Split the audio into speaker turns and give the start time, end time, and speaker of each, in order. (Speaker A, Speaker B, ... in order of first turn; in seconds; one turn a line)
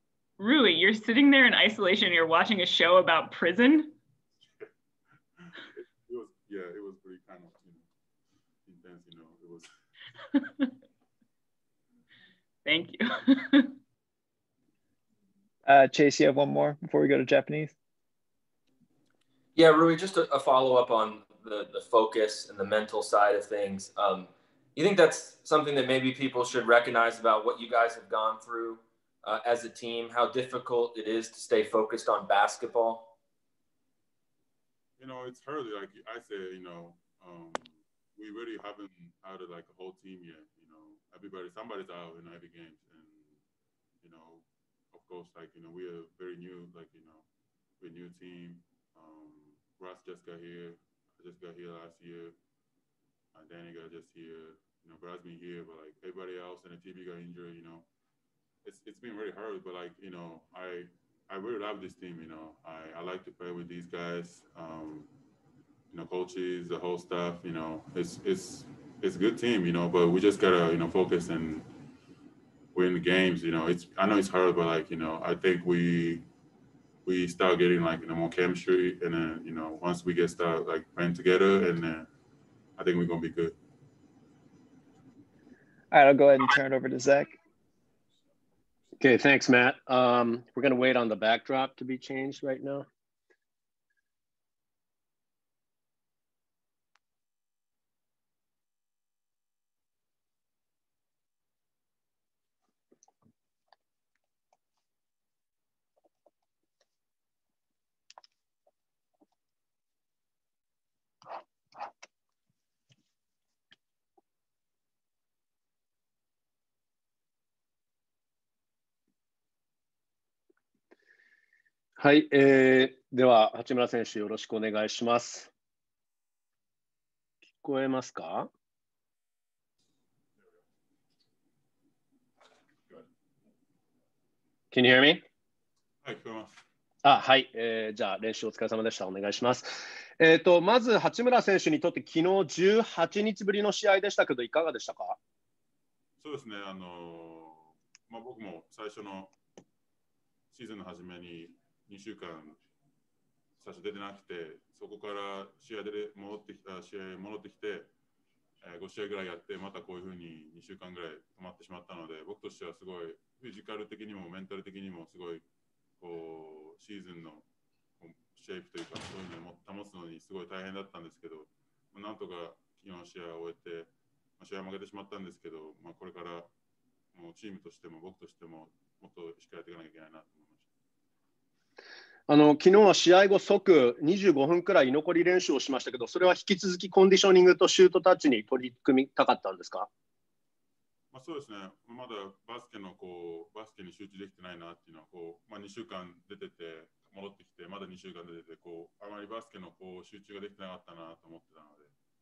Speaker A: 0.4-3.9
Speaker B: 5.4-7.8
Speaker B: 8.7-9.7
Speaker A: 12.6-13.8
Speaker C: 15.7-17.7
Speaker D: 19.6-33.1
Speaker B: 35.0-43.4
Speaker B: 44.0-47.2
Speaker B: 47.8-52.4
Speaker B: 53.3-57.9
Speaker B: 58.6-65.1
Speaker B: 65.9-71.7
Speaker B: 72.7-76.2
Speaker B: 77.0-82.1
Speaker B: 82.8-83.5
Speaker C: 85.9-87.3
Speaker E: 89.0-92.9
Speaker E: 122.0-125.5
Speaker E: 127.6-128.5
Speaker E: 134.7-135.2
Speaker B: 136.0-136.5
Speaker E: 137.0-145.2
Speaker B: 146.2-149.3
Speaker B: 150.5-152.6
Speaker B: 153.6-157.9
Speaker B: 158.6-165.4
Speaker B: 166.0-167.5
Speaker B: 168.0-176.5
Speaker B: 177.1-180.7
Speaker E: 182.3-189.9
Speaker B: 191.1-201.9